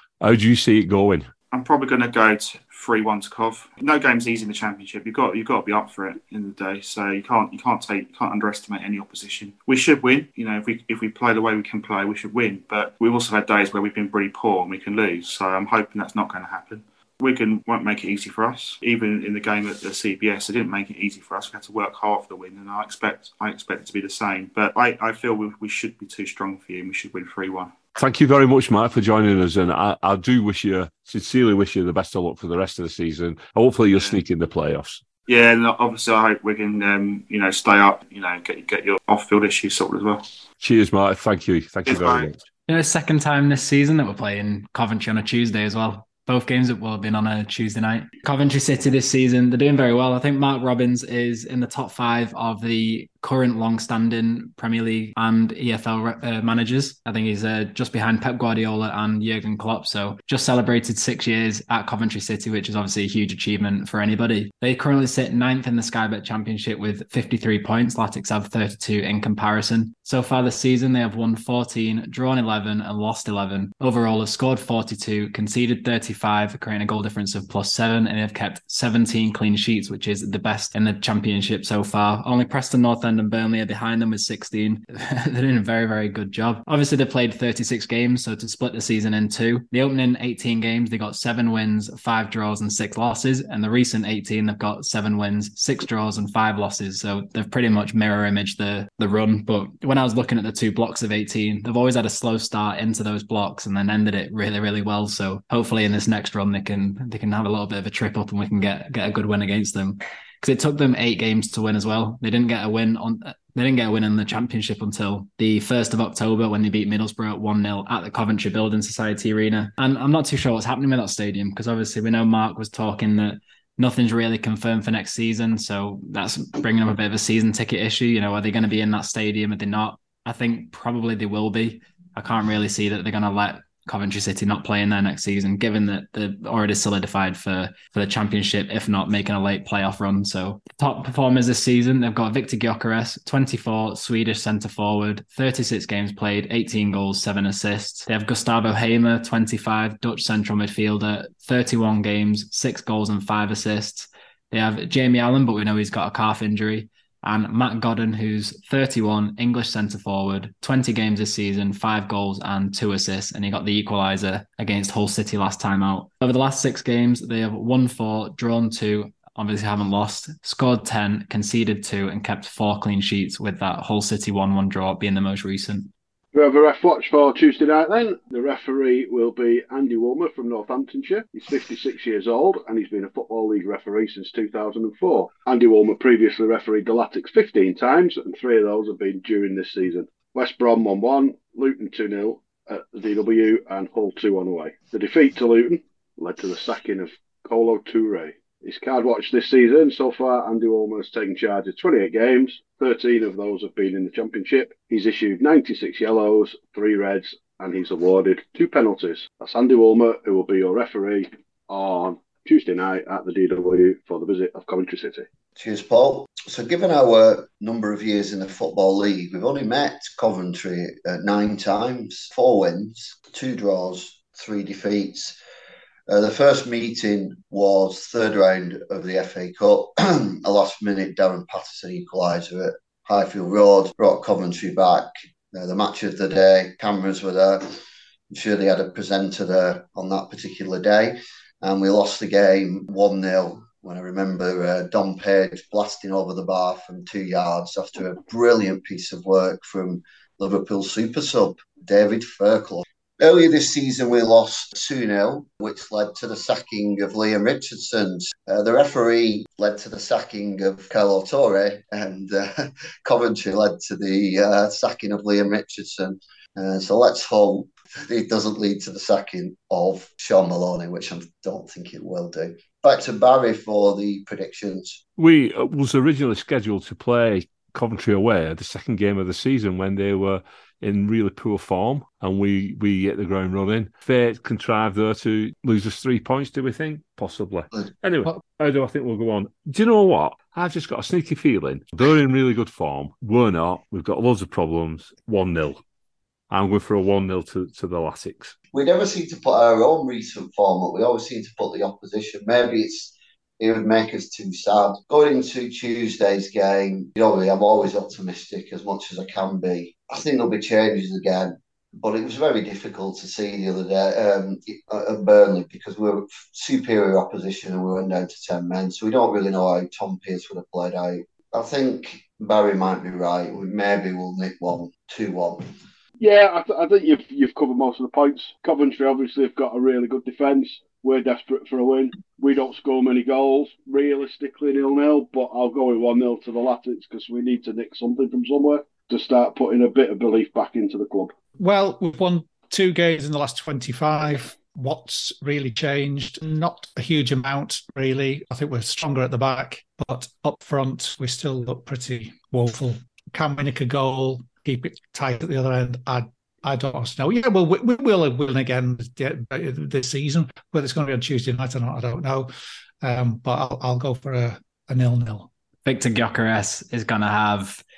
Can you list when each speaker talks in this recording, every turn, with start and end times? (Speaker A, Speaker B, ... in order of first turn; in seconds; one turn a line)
Speaker A: 0.2-1.3
Speaker B: 1.5-27.7
Speaker A: 28.0-35.0
Speaker B: 33.9-34.2
Speaker B: 35.3-40.4
Speaker A: 40.6-42.5
Speaker B: 41.9-42.3
Speaker C: 42.7-175.9
Speaker D: 176.3-215.3
Speaker E: 215.6-225.4
Speaker E: 226.1-237.7
Speaker E: 238.3-275.0
Speaker A: 275.2-295.8
Speaker A: 296.5-298.5
Speaker E: 298.7-325.7
Speaker D: 326.2-341.3
Speaker F: 341.6-362.5
Speaker F: 363.0-365.5
Speaker C: 365.9-367.8